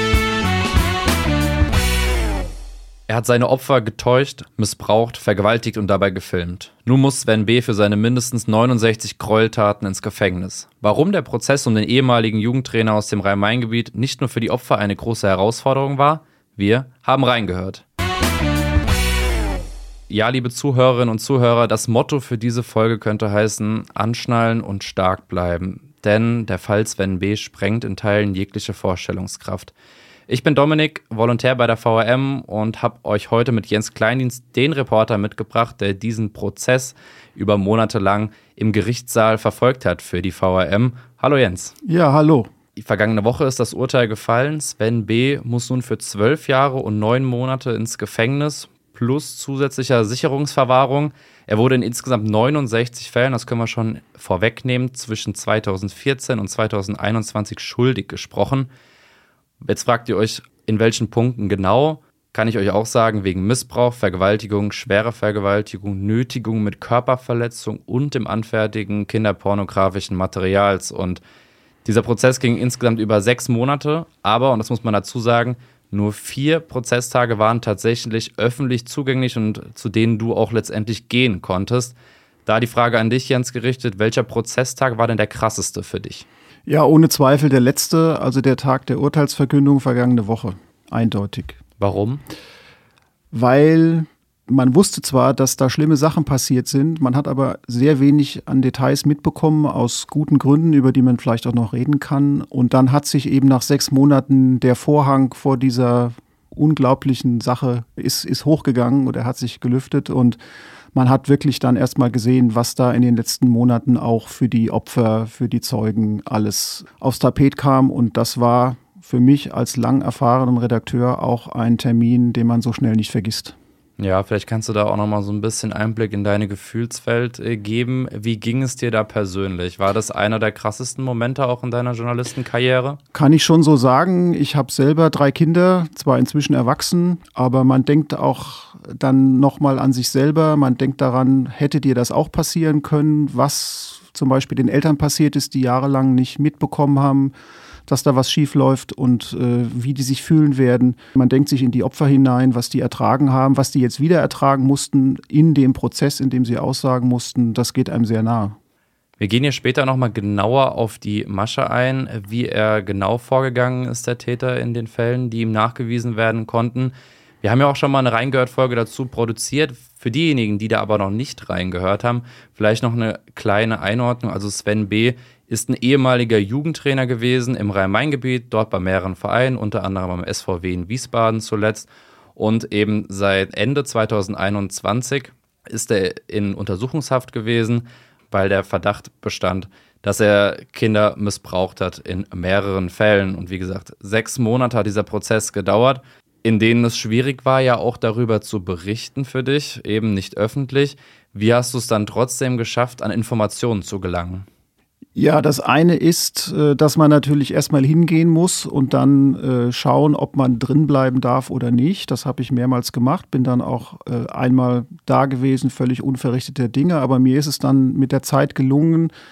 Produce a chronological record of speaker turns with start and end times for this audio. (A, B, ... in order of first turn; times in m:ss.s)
0:03.1-0:17.8 A
0:20.1-0:29.7 A
0:30.3-0:41.7 A
0:41.8-0:42.5 B
0:42.8-0:58.7 A
0:59.6-1:11.2 A
1:11.8-1:26.3 A
1:26.7-1:31.6 B
1:31.8-1:32.2 A
1:33.3-1:50.4 B
1:50.9-2:03.6 B
2:04.0-2:13.0 A
2:13.1-2:27.3 B
2:27.9-2:38.6 B
2:39.2-3:24.5 A
3:25.2-3:39.1 B